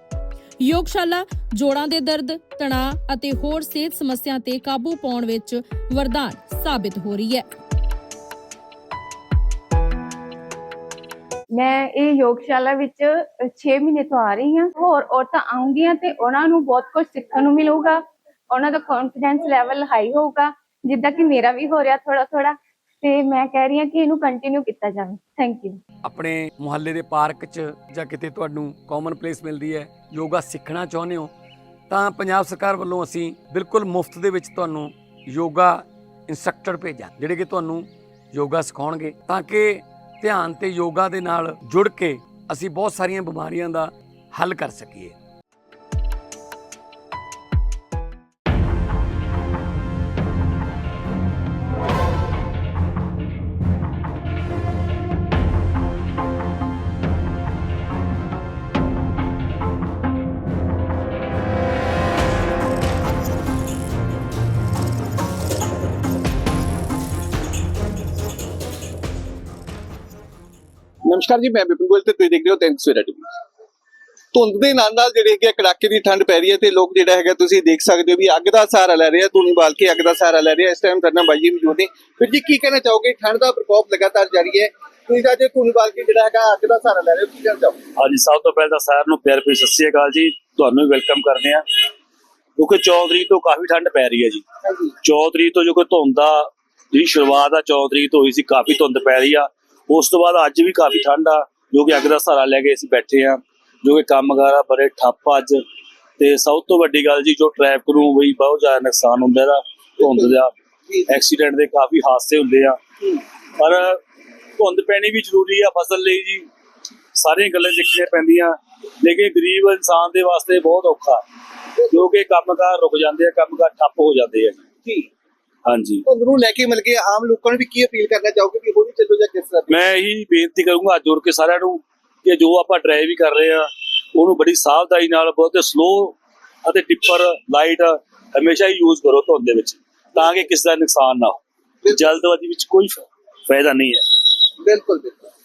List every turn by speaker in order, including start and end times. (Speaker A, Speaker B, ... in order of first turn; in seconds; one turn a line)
Speaker A: 0.6-7.5
Speaker B: 11.5-25.8
Speaker C: 26.1-31.3
Speaker C: 31.9-45.1
Speaker D: 71.1-73.3
Speaker D: 74.3-87.8
Speaker E: 88.0-91.6
Speaker E: 92.6-94.4
Speaker D: 94.7-94.9
Speaker E: 95.0-105.6
Speaker E: 106.2-110.5
Speaker E: 111.1-112.8
Speaker E: 113.6-114.0
Speaker E: 114.6-116.5
Speaker E: 117.2-121.2
Speaker E: 121.9-124.6
Speaker E: 125.7-126.0
Speaker D: 126.1-129.8
Speaker E: 129.7-144.2
Speaker D: 144.6-145.3